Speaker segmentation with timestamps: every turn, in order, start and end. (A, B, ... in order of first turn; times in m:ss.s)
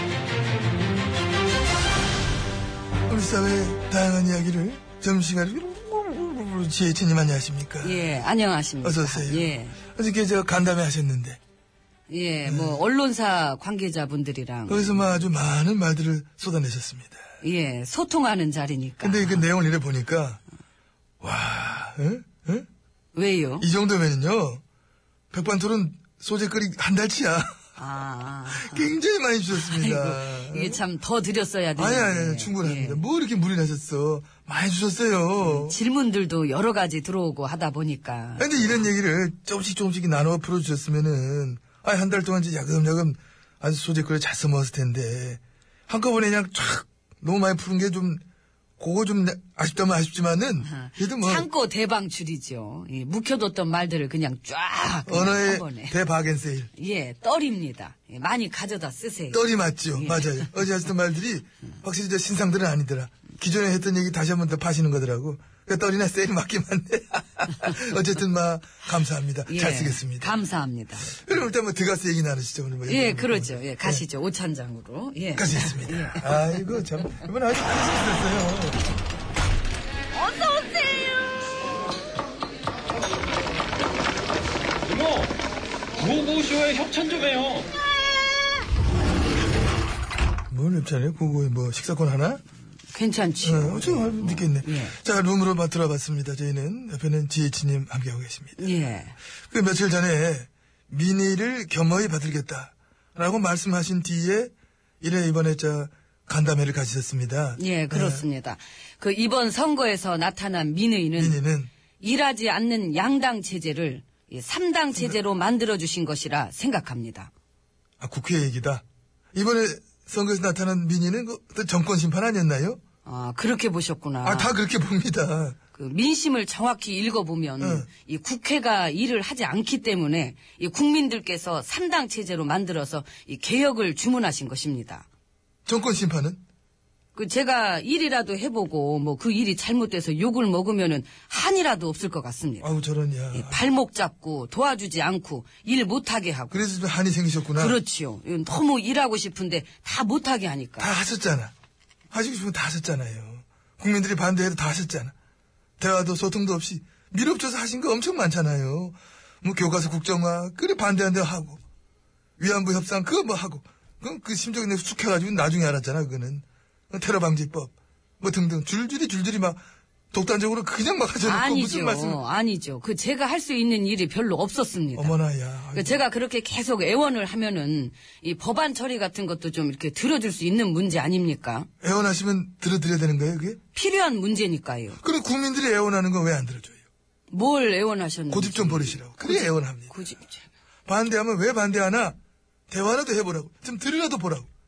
0:03.1-0:08.2 A
0:07.8-0:09.8 B
0:08.8-0:11.4 A
0:12.1-0:15.1 B
0:12.4-0:12.8 A
0:14.7-0:17.2 A
0:17.4-0:19.4 B
0:19.0-0:20.4 A
0:21.2-0:22.6 A
0:23.1-0:23.7 B
0:23.6-0:24.6 A
0:25.3-0:27.6 A
0:27.8-0:28.9 B
0:28.5-0:30.8 A
0:29.6-0:33.0 B
0:31.8-0:35.8 A
0:35.4-0:38.8 B
0:38.4-0:48.2 A
0:48.8-0:51.5 A
0:50.6-0:56.0 B
0:55.0-0:56.7 A
0:56.8-1:00.5 B
0:59.3-1:10.3 A
1:09.5-1:11.1 B
1:11.1-1:14.0 A
1:12.9-1:16.7 B
1:15.3-1:18.8 A
1:20.2-1:21.1 B
1:24.9-1:25.3 C
1:26.0-1:27.7 C
1:30.5-1:32.4 A
1:32.9-1:35.0 B
1:33.4-1:38.7 A
1:38.6-1:39.2 B
1:39.5-1:48.2 A
1:47.6-1:51.4 B
1:51.2-1:51.7 A
1:52.0-1:57.3 B
1:58.0-1:58.8 A
1:59.3-2:02.8 A
2:03.0-2:04.5 B
2:04.2-2:05.6 A
2:05.7-2:15.0 B
2:07.6-2:07.9 A
2:15.6-2:16.4 A
2:17.1-2:22.7 B
2:22.6-2:23.6 A
2:23.3-2:26.6 B
2:26.5-2:27.8 A
2:27.5-2:30.9 B
2:30.8-2:31.5 A
2:32.1-2:35.1 A
2:35.8-2:41.6 A
2:42.4-2:52.2 A
2:51.2-2:55.2 B
2:54.9-2:56.0 A
2:55.7-3:01.7 B
3:01.8-3:03.6 A
3:03.7-3:05.0 B
3:05.0-3:06.8 A
3:07.3-3:10.5 B
3:08.3-3:09.9 A
3:10.9-3:12.2 A
3:12.7-3:14.5 A